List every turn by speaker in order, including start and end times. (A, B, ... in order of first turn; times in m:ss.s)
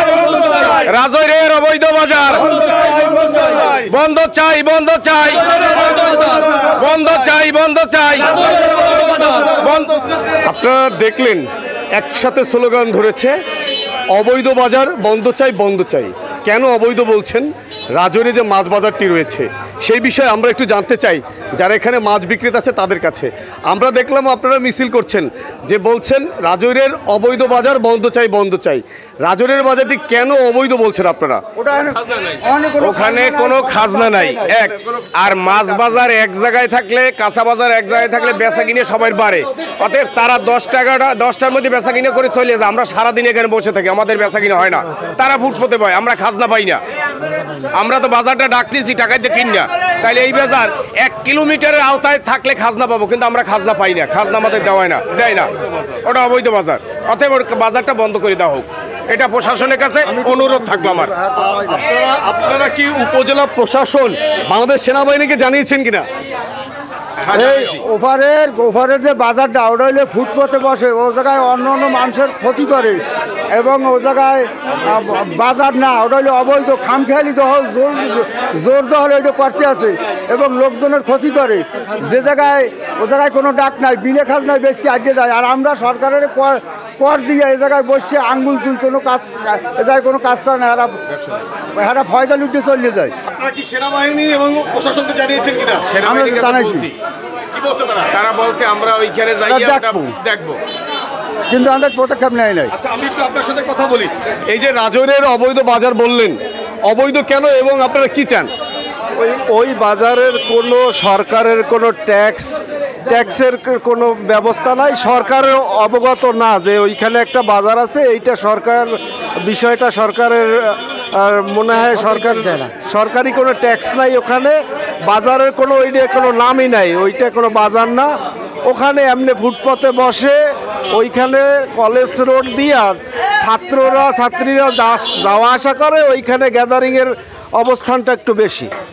0:00.3-0:00.6 A
0:00.7-0:02.6 B
0:02.6-0:03.5 A
0:03.5-0:08.7 B
0:09.4-0:10.0 B
0:10.4-0:13.4 A
0:14.1-0:31.4 A
0:31.6-0:34.7 C
0:32.8-0:46.8 B
0:47.7-1:01.1 B
1:00.1-1:01.8 C
1:01.5-1:06.1 A
1:07.3-1:13.0 C
1:13.5-1:31.0 C
1:31.8-1:33.2 C
1:33.3-1:36.0 A
1:35.9-1:36.9 B
1:36.0-1:36.9 C
1:37.6-1:38.1 A
1:38.1-1:40.6 B
1:39.5-1:40.1 C
1:41.5-1:42.7 C
1:42.8-1:46.4 A
1:46.9-1:48.5 A
1:49.1-2:08.1 D
2:08.6-2:10.4 D
2:10.9-2:18.7 D